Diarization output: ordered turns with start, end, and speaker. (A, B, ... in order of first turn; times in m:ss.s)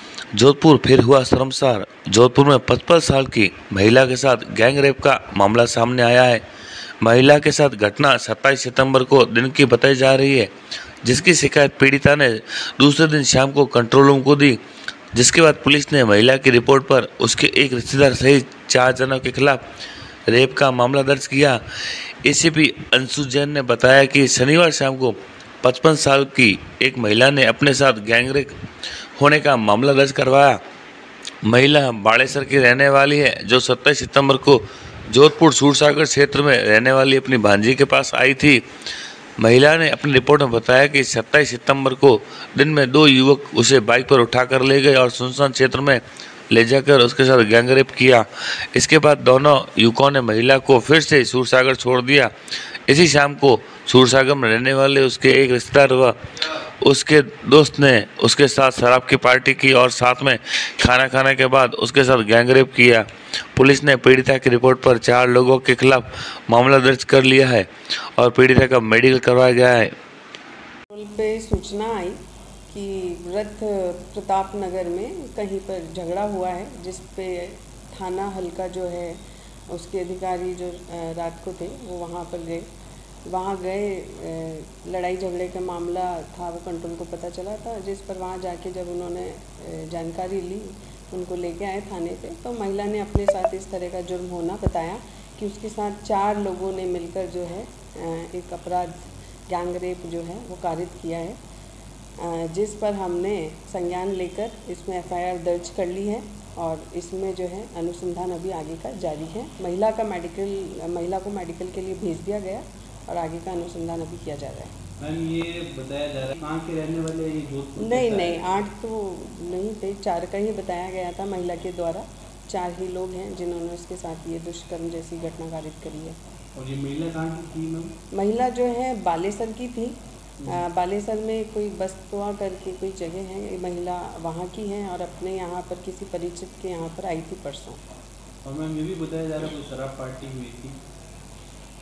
0:00.3-0:06.4 A
0:07.0-0:10.5 A
0:11.0-0:14.6 A
0:15.1-0:19.6 A
0:20.3-0:21.6 A
0:22.2-0:28.6 A
0:29.2-0:30.6 A
0:31.4-0:38.6 A
0:39.4-0:52.3 A
0:52.9-0:56.2 A
0:56.8-1:10.0 A
1:10.9-1:12.2 B
1:12.7-1:22.7 B
1:23.3-1:41.4 B
1:42.2-1:54.8 B
1:55.0-1:58.6 C
1:57.8-2:06.2 B
2:06.5-2:08.0 C
2:08.1-2:17.8 B
2:18.4-2:20.8 C